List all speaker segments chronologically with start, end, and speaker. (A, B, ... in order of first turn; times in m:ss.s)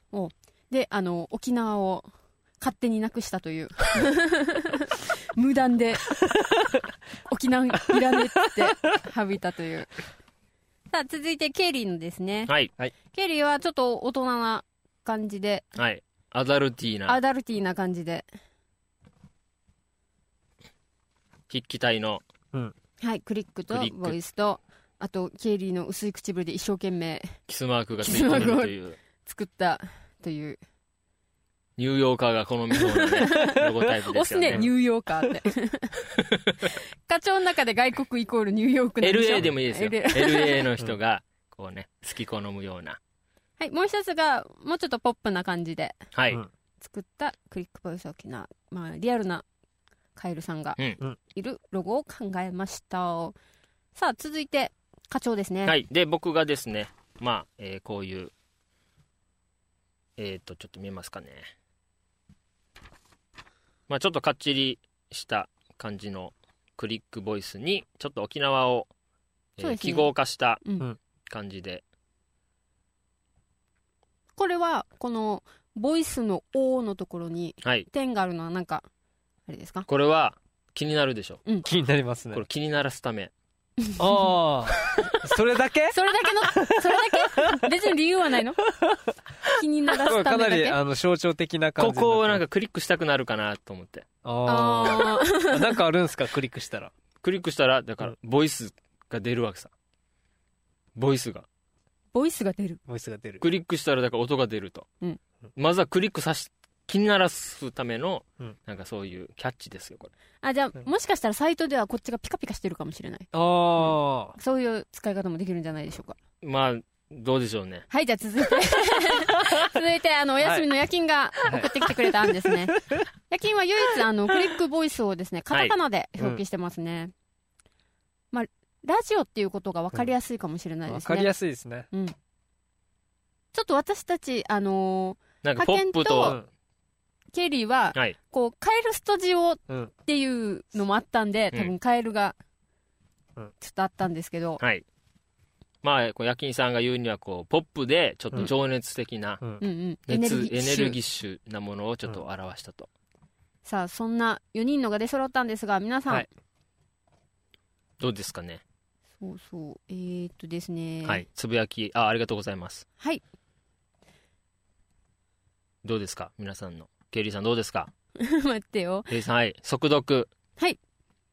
0:00.1-0:02.1 A
0:02.6-0:06.1 A
0:07.3-0:09.9 A
0:10.9-0:12.5 A
0:13.1-0:15.7 A
0:15.8-0:17.2 B
0:17.1-0:18.2 A
0:21.5-0:22.2 B
0:23.0-0:27.4 A
0:23.7-0:24.2 B
0:27.5-0:29.0 B
0:28.0-0:30.6 A
0:31.8-0:34.6 B
0:32.8-0:35.9 A
0:37.1-0:40.6 A
0:39.0-0:43.0 B
0:43.6-0:46.0 A
0:46.1-0:46.4 B
0:46.8-0:49.4 A
0:50.1-0:50.8 A
0:51.3-0:53.3 A
0:53.9-0:55.7 A
0:55.6-0:58.3 B
1:00.2-1:01.5 B
1:03.9-1:08.9 B
1:09.6-1:10.6 B
1:09.6-1:10.9 A
1:11.3-1:11.8 B
1:14.4-1:18.8 A
1:19.5-1:19.9 A
1:19.9-1:21.4 B
1:21.6-1:22.4 C
1:22.3-1:23.3 B
1:23.8-1:24.3 A
1:24.0-1:26.0 C
1:25.9-1:28.6 A
1:26.5-1:27.6 C
1:28.7-1:29.1 C
1:29.6-1:30.8 A
1:30.0-1:32.4 C
1:31.8-1:34.0 B
1:34.2-1:36.9 C
1:34.4-1:35.7 A
1:37.2-1:39.7 B
1:41.0-1:41.4 B
1:42.1-1:42.8 A
1:42.9-1:43.4 C
1:43.4-1:44.9 B
1:45.6-1:50.1 B
1:50.4-1:53.3 A
1:53.3-1:54.4 C
1:53.8-1:56.2 A
1:56.4-1:57.9 B
1:57.9-2:02.8 A
2:00.4-2:00.7 C
2:01.4-2:01.9 C
2:02.4-2:03.0 C
2:03.3-2:07.1 A
2:08.3-2:11.3 A
2:10.9-2:11.9 C
2:11.9-2:12.1 A
2:13.5-2:16.4 A
2:15.4-2:16.4 B
2:16.2-2:16.5 C
2:17.3-2:22.4 A
2:23.6-2:24.6 A
2:25.8-2:29.4 B
2:29.6-2:31.0 A
2:30.1-2:32.9 B
2:33.6-2:36.3 A
2:38.0-2:38.6 B
2:39.2-2:41.2 A
2:41.0-2:42.8 B
2:45.8-2:47.9 B
2:48.2-2:49.1 A
2:49.1-2:50.3 B